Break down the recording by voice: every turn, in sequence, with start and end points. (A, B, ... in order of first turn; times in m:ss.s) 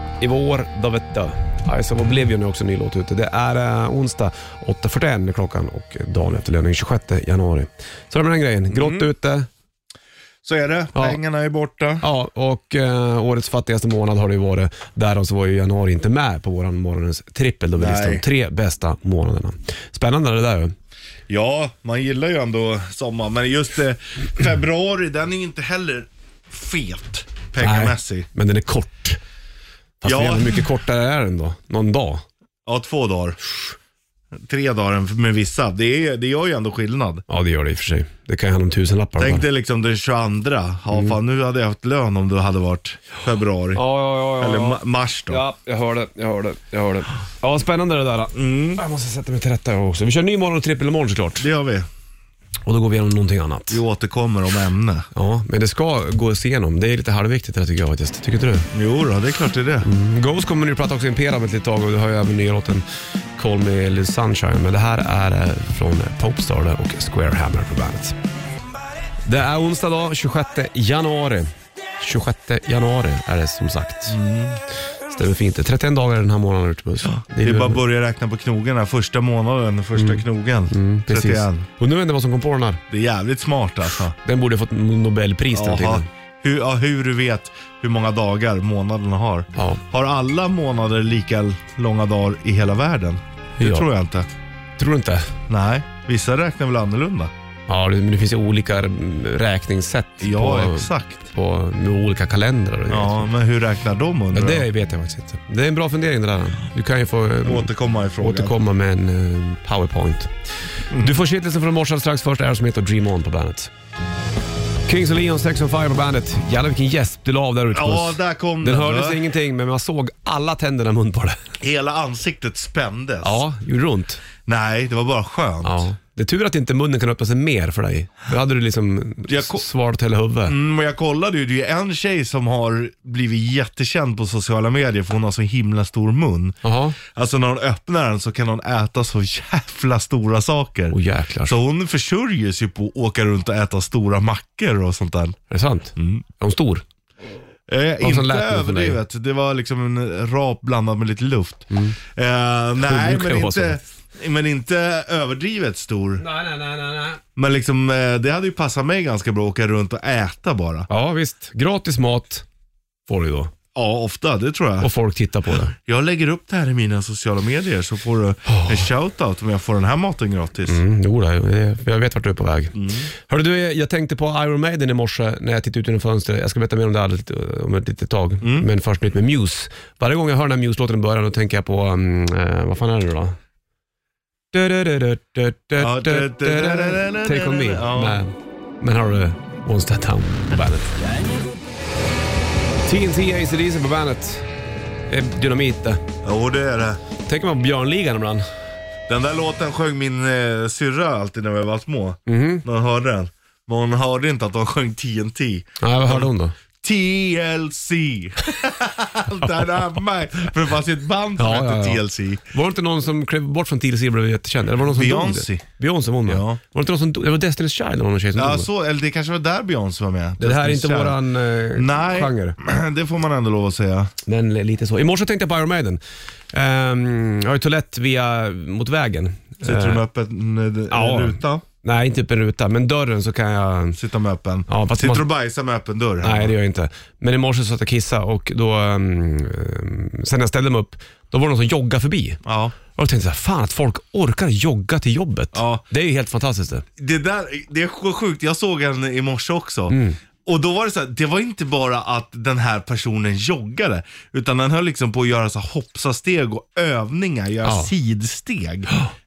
0:00.2-0:09.5 A
0:08.7-0:09.1 B
0:10.4-0:12.0 B
0:12.0-0:20.7 A
0:17.8-0:18.2 B
0:21.3-0:28.3 B
0:27.6-0:29.2 A
0:30.0-0:32.2 A
0:30.0-0:30.6 B
0:32.7-0:33.4 B
0:34.4-0:37.2 B
0:37.3-0:39.4 A
0:39.2-0:43.8 B
0:43.8-0:51.5 A
0:44.4-0:45.4 B
0:48.4-0:48.8 B
0:51.4-0:51.9 B
0:52.6-0:53.8 A
0:53.7-0:55.1 B
0:55.1-0:58.7 A
0:58.7-0:59.9 B
0:59.8-1:02.8 A
1:03.4-1:08.2 A
1:09.3-1:14.2 A
1:14.1-1:14.6 B
1:15.1-1:17.8 A
1:17.0-1:21.7 B
1:20.0-1:22.8 A
1:22.9-1:24.2 B
1:24.2-1:26.1 A
1:25.5-1:34.3 B
1:29.6-1:29.8 A
1:33.6-1:33.9 A
1:34.8-1:35.4 A
1:35.5-1:37.3 B
1:37.7-1:43.3 A
1:40.2-1:41.2 B
1:42.9-1:44.7 B
1:44.3-1:50.3 A
1:47.4-1:48.6 B
1:50.9-1:53.7 A
1:50.9-1:51.2 B
1:54.9-2:01.5 A
1:57.7-1:59.2 B
2:01.6-2:03.4 B
2:03.2-2:04.2 A
2:04.5-2:05.9 B
2:05.6-2:10.6 A
2:09.3-2:09.6 B
2:10.5-2:25.4 B
2:16.6-2:17.0 A
2:20.9-2:21.6 A
2:25.5-2:26.8 A
2:26.0-2:26.2 B
2:27.7-2:36.2 B
2:28.0-2:29.0 A
2:31.7-2:32.0 A
2:32.8-2:33.8 A
2:36.2-2:37.2 A
2:37.4-2:40.9 B
2:40.9-2:42.4 A
2:43.1-2:43.5 A
2:43.8-2:44.9 B
2:44.8-2:45.7 A
2:45.7-2:50.8 B
2:48.5-2:48.8 A
2:50.7-3:03.4 A
2:52.8-2:53.1 B
2:58.4-2:58.7 B
3:04.5-3:11.0 A
3:05.8-3:08.2 B
3:12.9-3:14.5 A
3:15.1-3:16.0 A
3:16.2-3:17.0 B
3:17.3-3:18.4 A
3:19.1-3:32.4 B
3:22.3-3:22.6 A
3:25.8-3:26.6 A
3:31.4-3:32.0 A
3:32.5-3:38.7 A
3:34.8-3:35.6 B
3:36.3-3:36.6 B
3:38.4-3:41.2 B
3:40.4-3:42.6 A
3:41.7-3:44.1 B
3:44.2-3:46.0 A
3:46.5-3:50.0 A
3:49.6-3:51.6 B
3:50.9-3:54.0 A
3:54.0-3:56.5 B
3:54.7-3:55.2 A
3:56.2-4:02.4 A
4:02.4-4:02.8 B
4:03.0-4:06.9 A
4:05.5-4:05.8 B
4:07.0-4:18.9 B
4:09.9-4:10.2 A
4:17.6-4:17.9 A